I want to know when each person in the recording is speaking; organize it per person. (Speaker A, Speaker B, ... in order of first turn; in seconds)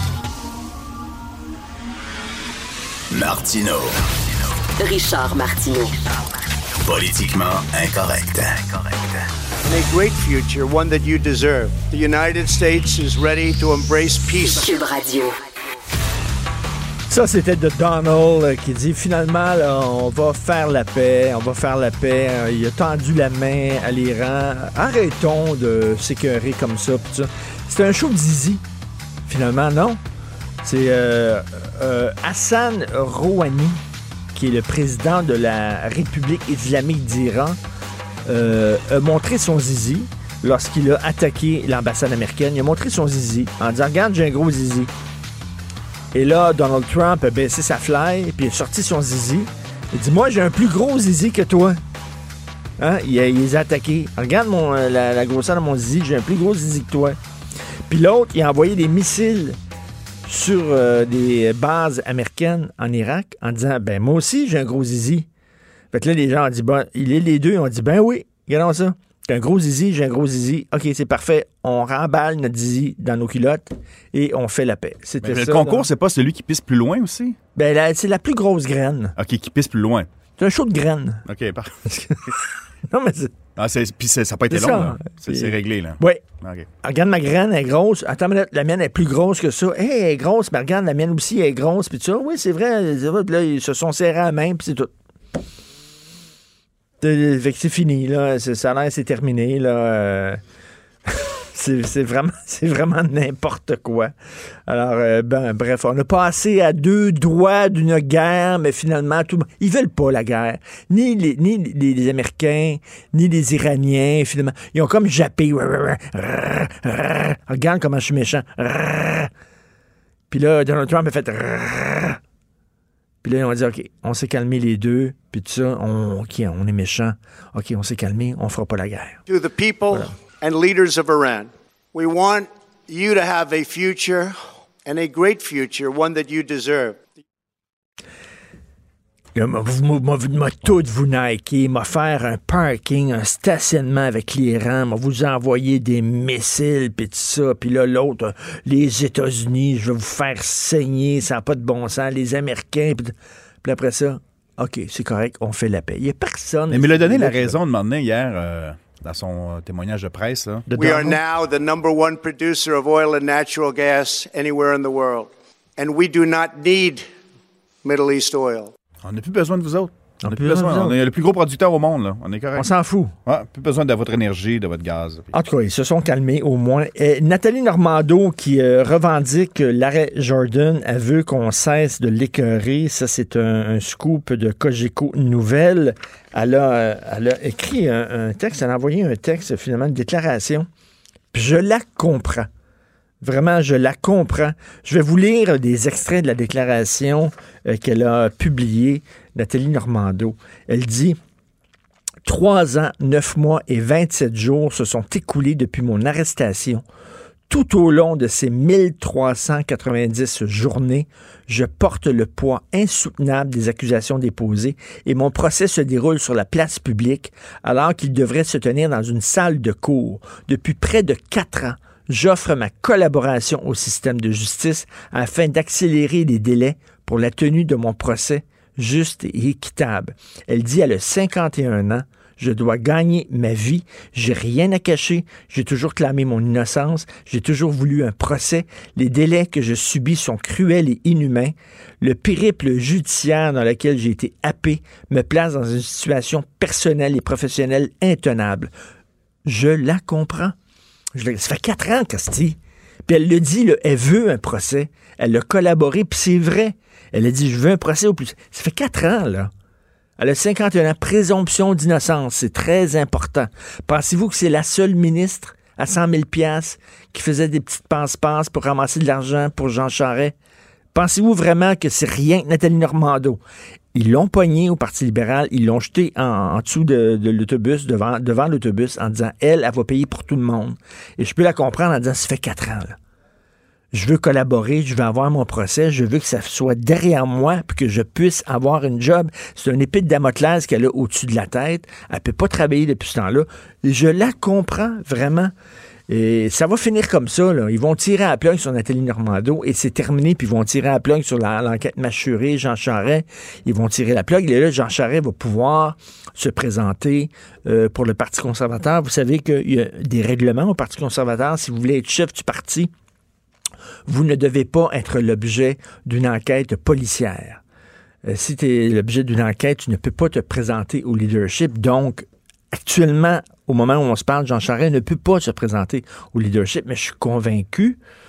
Speaker A: 3.1-4.0, 6.8-9.1
Speaker B: 4.8-5.9, 14.4-15.3
Speaker C: 9.7-14.7, 129.3-137.1, 160.7-167.1, 167.8-168.7
Speaker D: 17.1-28.6, 29.2-30.0, 30.6-33.8, 34.3-37.6, 38.3-44.9, 46.1-51.8, 52.8-57.2, 57.9-59.6, 60.2-65.3, 65.9-75.9, 77.5-79.1, 80.4-81.2, 81.9-83.3, 84.5-86.2, 86.8-94.9, 97.0-100.4, 101.1-104.1, 104.7-119.3, 120.3-122.2, 123.2-129.2, 139.3-157.6, 160.7-161.2, 170.2-170.9, 172.5-173.1, 175.3-190.7, 191.3-192.5, 193.2-201.2, 202.2-206.8, 207.5-248.7, 249.4-250.6, 251.1-259.5, 260.2-270.4, 270.9-273.4, 273.9-283.0, 283.9-295.5, 296.1-312.9, 314.1-317.6, 318.2-328.0
Speaker E: 75.2-77.4, 79.2-80.1, 81.3-81.7, 83.6-86.7, 156.7-160.7, 169.0-172.7, 173.2-175.3